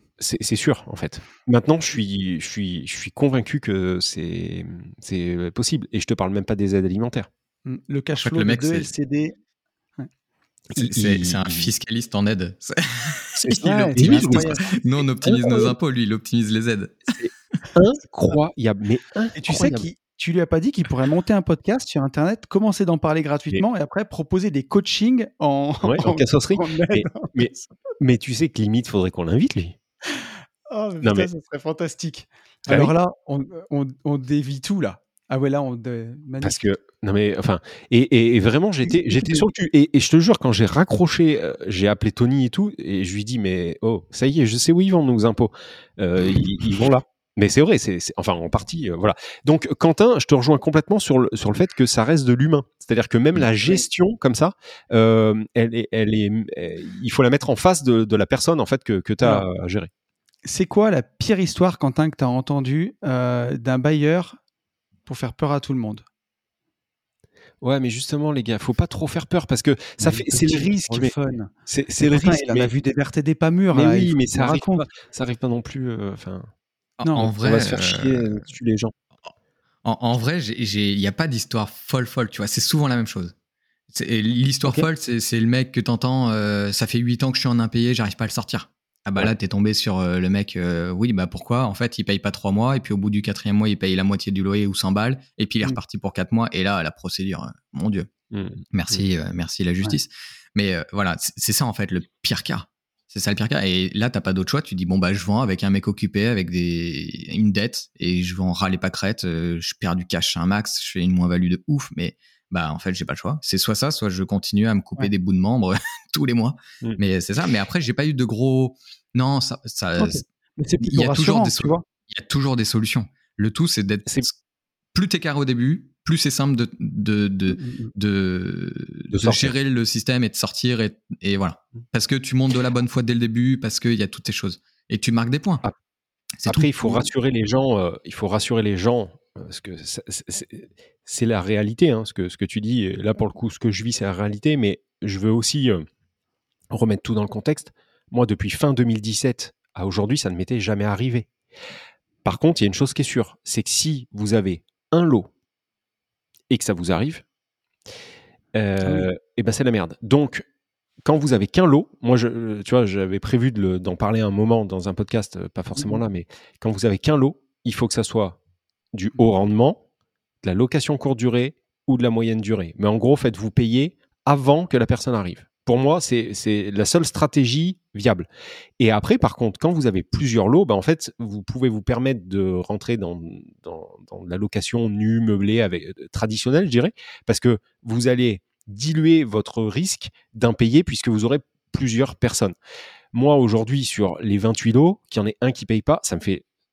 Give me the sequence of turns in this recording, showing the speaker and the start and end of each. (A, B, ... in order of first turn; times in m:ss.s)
0:00.2-0:07.3 A
0:07.6-0:09.3 B
0:08.2-0:08.9 C
0:10.7-0:11.7 A
0:10.8-0:17.2 C
0:13.4-0:14.7 A
0:13.6-0:14.7 B
0:15.3-0:15.7 A
0:17.2-0:19.9 A
0:19.4-0:27.7 B
0:25.8-0:29.8 A
0:30.7-0:36.6 B
0:31.0-0:31.3 A
0:32.7-0:32.9 A
0:36.4-0:59.9 A
0:38.9-0:39.4 B
1:00.4-1:04.4 B
1:05.0-1:06.0 B
1:07.6-1:11.1 A
1:10.0-1:14.8 B
1:11.7-1:12.7 A
1:13.7-1:16.5 A
1:17.0-1:18.4 C
1:17.0-1:17.3 B
1:17.4-1:18.9 A
1:19.8-1:23.3 C
1:23.9-1:38.1 C
1:38.3-1:38.9 A
1:38.7-2:00.2 C
2:00.0-2:01.8 B
2:00.8-2:04.3 C
2:04.9-2:15.6 C
2:07.5-2:07.9 B
2:09.1-2:09.5 A
2:16.4-2:16.9 C
2:16.4-2:25.9 A
2:26.7-2:31.3 A
2:32.2-2:35.3 A
2:36.5-2:37.2 A
2:38.5-2:40.4 A
2:41.0-2:48.4 A
2:45.8-2:46.0 B
2:48.9-2:49.8 A
2:50.4-2:58.3 A
2:58.8-3:12.5 A
3:13.1-3:16.4 A